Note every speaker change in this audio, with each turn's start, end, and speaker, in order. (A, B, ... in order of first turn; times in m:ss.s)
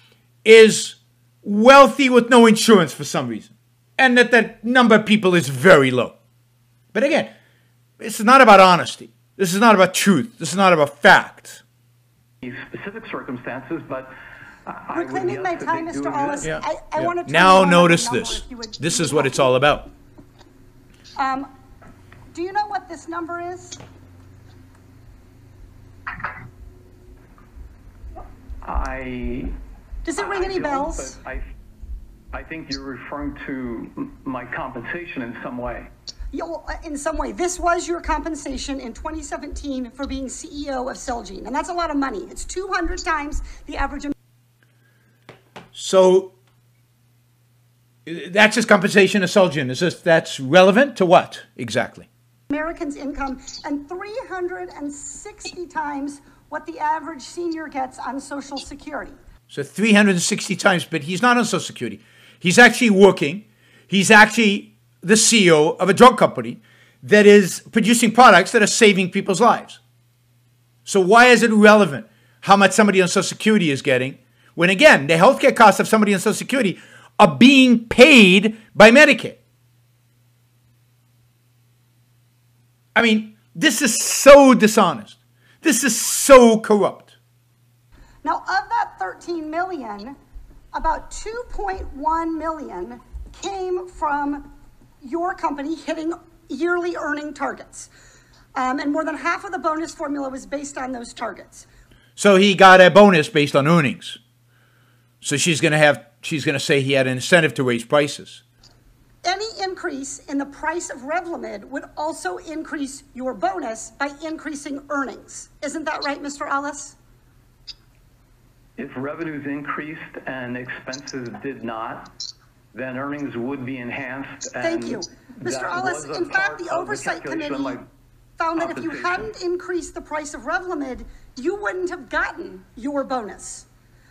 0:00.4-0:06.2 A
0:06.9-0:07.3 A
0:08.0-0:11.6 A
0:12.4-0:14.1 B
0:14.7-0:16.5 B
0:14.9-0:19.5 C
0:16.4-0:19.9 A
0:21.2-0:21.5 C
0:22.3-0:23.8 C
0:28.6-0:29.5 B
0:30.0-0:31.1 C
0:30.2-0:31.4 B
0:32.3-0:35.9 B
0:36.3-0:44.1 C
0:45.7-0:46.3 A
0:48.1-0:52.1 A
0:52.5-0:59.2 C
0:59.5-1:09.8 A
1:10.9-1:19.4 A
1:23.0-1:27.1 A
1:28.2-1:30.2 C
1:30.7-1:34.5 C
1:35.0-1:37.9 C
1:38.6-1:41.7 C
1:42.2-1:44.2 A
1:45.2-1:48.4 A
1:49.2-1:57.0 C
1:58.8-2:02.1 B
2:02.7-2:07.9 B
2:04.6-2:07.8 C
2:08.4-2:13.7 C
2:08.6-2:09.3 B